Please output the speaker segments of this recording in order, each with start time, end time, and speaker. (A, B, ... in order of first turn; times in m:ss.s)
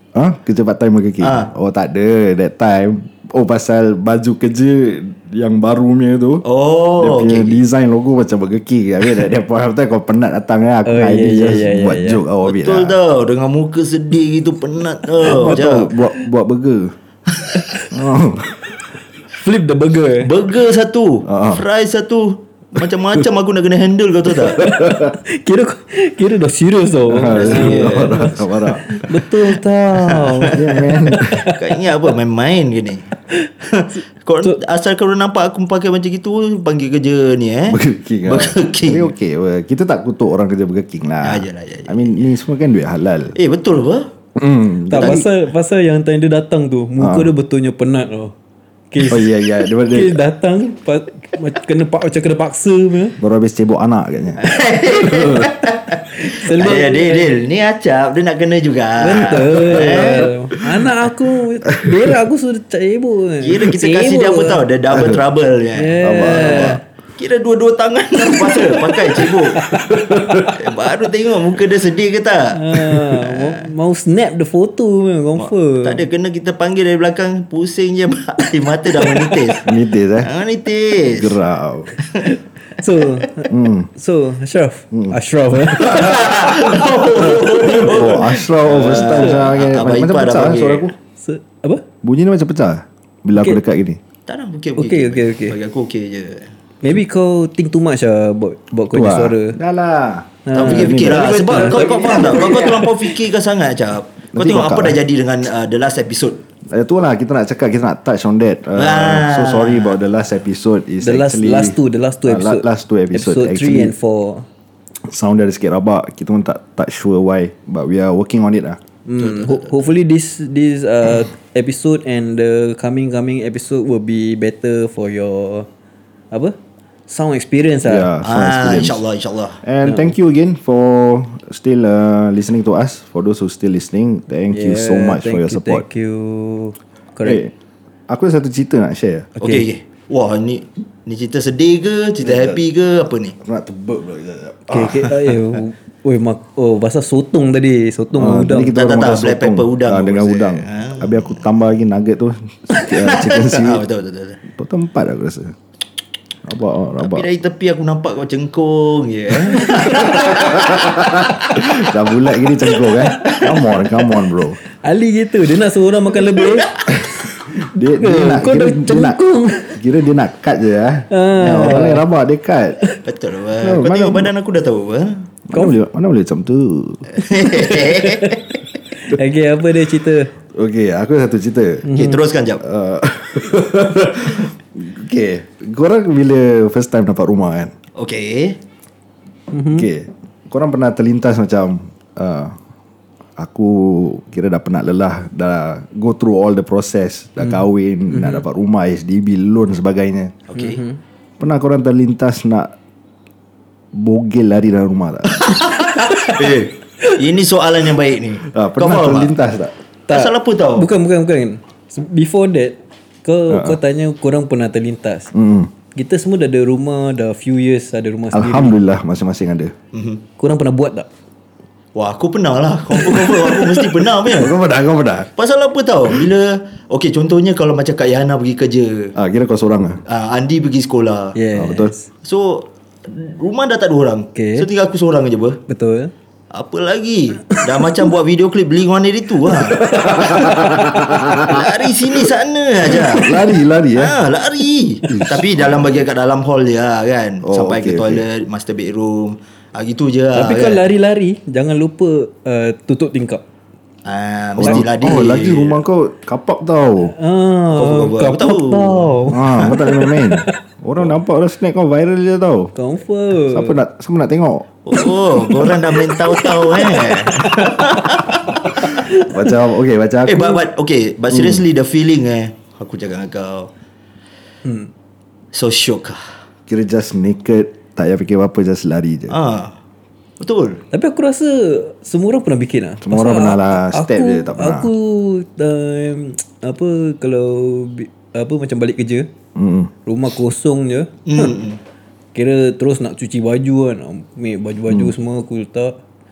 0:00.1-0:06.4 A
0:01.2-0:01.5 B
0:06.4-0:07.6 B
0:07.0-0:13.0 A
0:10.8-0:12.2 C
0:12.4-0:16.0 B
0:15.2-0:16.9 A
0:17.9-0:18.7 A
0:19.3-0:20.3 C
0:20.2-0:24.7 B
0:21.2-0:21.6 A
0:24.5-0:31.6 C
0:24.5-0:25.2 A
0:27.1-0:29.0 A
0:27.3-0:28.4 B
0:30.0-0:30.7 B
0:30.5-0:31.4 A
0:31.4-0:33.1 B
0:33.6-0:39.1 B
0:37.7-0:43.3 A
0:41.2-0:42.3 B
0:43.4-0:44.1 B
0:44.4-0:45.2 A
0:44.9-0:48.3 C
0:44.9-0:45.2 B
0:47.0-0:47.3 A
0:48.9-0:53.2 C
0:49.0-0:50.2 A
0:53.2-0:55.5 A
0:54.4-1:00.3 B
0:56.1-0:57.4 C
0:59.0-1:04.6 C
1:01.7-1:02.1 A
1:03.4-1:09.7 B
1:04.9-1:05.2 A
1:05.7-1:06.8 C
1:06.0-1:06.8 A
1:09.3-1:10.6 A
1:10.5-1:13.7 B
1:12.5-1:16.0 C
1:15.4-1:21.4 B
1:19.6-1:20.3 A
1:21.0-1:21.9 A
1:22.0-1:22.4 B
1:22.7-1:28.1 C
1:23.5-1:23.9 A
1:25.8-1:30.9 B
1:25.8-1:30.9 A
1:28.8-1:29.4 C
1:31.2-1:31.8 C
1:32.0-1:34.0 A
1:34.3-1:36.5 B
1:34.8-1:35.6 C
1:36.8-1:39.6 C
1:38.9-1:42.8 A
1:40.4-1:43.0 C
1:40.6-1:46.4 B
1:44.3-1:45.0 A
1:46.7-1:53.9 A
1:48.8-1:50.0 B
1:51.0-1:54.4 C
1:55.0-1:58.8 A
1:59.1-2:05.7 C
1:59.2-1:59.8 B
2:06.3-2:06.6 C
2:07.1-2:08.1 C
2:07.8-2:09.0 A
2:08.2-2:09.6 B
2:09.6-2:15.8 A
2:09.8-2:10.1 C
2:14.5-2:17.4 C
2:17.2-2:17.5 A
2:18.1-2:19.3 A
2:19.4-2:19.7 C
2:19.4-2:23.4 B
2:22.2-2:22.6 A
2:23.4-2:25.1 A
2:24.7-2:28.8 C
2:28.2-2:33.8 A
2:28.6-2:31.4 B
2:32.7-2:34.4 B
2:34.4-2:35.6 A
2:36.4-2:37.3 A
2:37.0-2:41.9 B
2:39.5-2:44.6 A
2:42.8-2:43.6 B
2:44.8-2:46.8 C
2:46.3-2:46.7 B
2:46.9-2:49.2 A
2:47.8-2:49.8 C
2:49.7-2:52.8 A
2:51.1-2:52.0 C
2:51.5-2:51.9 B
2:53.0-2:55.2 B
2:53.6-2:54.3 A
2:55.5-2:57.1 A
2:57.1-2:58.6 B
2:57.3-3:00.3 C
3:00.5-3:01.8 A
3:01.8-3:02.2 C
3:01.9-3:02.6 B
3:02.6-3:07.7 A
3:08.0-3:08.6 B
3:09.5-3:09.9 C
3:09.8-3:12.6 A
3:13.4-3:20.4 A
3:18.1-3:18.4 C
3:20.5-3:20.8 B
3:20.6-3:21.0 C
3:21.4-3:22.7 A
3:23.9-3:25.6 A
3:25.4-3:29.3 B
3:28.5-3:29.7 A
3:30.1-3:35.3 C
3:30.1-3:30.9 B
3:33.5-3:33.8 A
3:35.3-3:35.7 A
3:35.9-3:38.8 C
3:38.3-3:39.7 A
3:39.9-3:40.2 B
3:40.4-3:41.1 C
3:41.9-3:44.6 B
3:43.1-3:43.8 C
3:44.2-3:45.3 A
3:45.4-3:49.1 B
3:49.2-3:50.0 A
3:50.1-3:51.4 B
3:51.3-3:52.1 C
3:51.6-3:51.9 A
3:52.2-3:55.6 B
3:54.3-3:54.7 C
3:55.7-3:56.1 C
3:56.5-4:00.6 B
3:59.7-4:01.7 A
4:00.1-4:01.2 C
4:01.4-4:10.8 B
4:02.9-4:04.2 A
4:05.1-4:06.0 A
4:07.4-4:08.2 A
4:10.3-4:13.4 C
4:14.0-4:15.8 B
4:14.6-4:17.1 A
4:17.0-4:21.0 C
4:17.8-4:19.8 B
4:19.3-4:22.7 A
4:22.8-4:23.8 C
4:23.5-4:24.7 A
4:24.9-4:28.9 B
4:24.9-4:28.1 C
4:28.7-4:29.3 C
4:28.9-4:30.6 A
4:30.2-4:33.7 B
4:31.3-4:31.6 A
4:34.6-4:34.9 C
4:35.5-4:36.3 B
4:36.7-4:39.4 A
4:39.3-4:39.8 B
4:40.4-4:40.8 B
4:40.9-4:49.3 C
4:43.0-4:44.9 A
4:49.6-4:49.9 A
4:50.1-4:51.5 C
4:51.2-4:51.8 B
4:52.3-4:55.9 C